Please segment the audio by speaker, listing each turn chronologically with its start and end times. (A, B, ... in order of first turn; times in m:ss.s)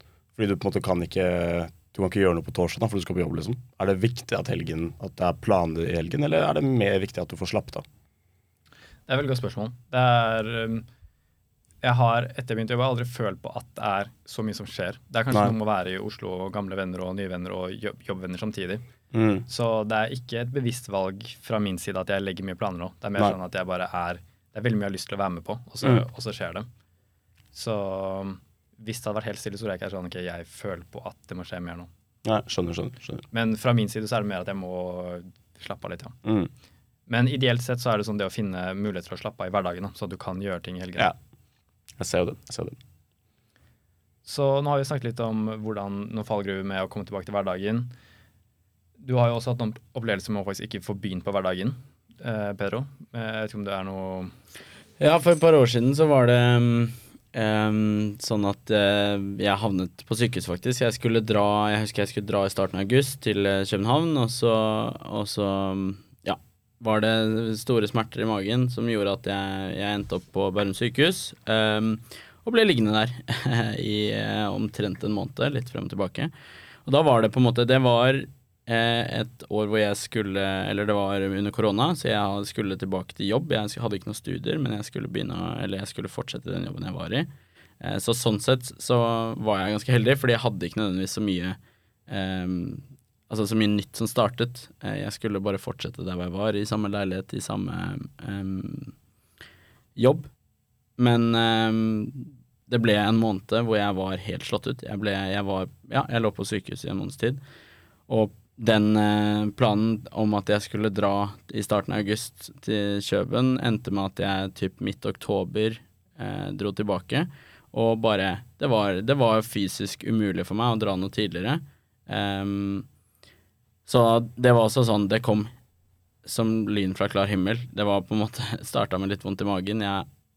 0:00.4-0:07.8 A
0:09.1-0:10.8 B
0:11.8-0:18.8 B
0:19.1-0:19.4 A
0:19.5-0:26.7 B
0:27.5-0:31.9 B
0:32.2-0:33.2 A
0:33.3-0:36.2 B
0:36.2-0:36.5 A
0:37.1-0:41.1 B
0:42.0-0:42.8 A
0:44.2-0:47.9 B
0:49.0-0:54.3 B
0:55.0-1:16.3 C
1:16.8-1:27.3 C
1:27.8-1:31.6 C
1:32.1-1:38.9 C
1:40.0-1:40.3 C
1:41.0-1:47.4 C
1:48.1-2:02.9 C
2:03.8-2:05.5 C
2:06.2-2:10.1 C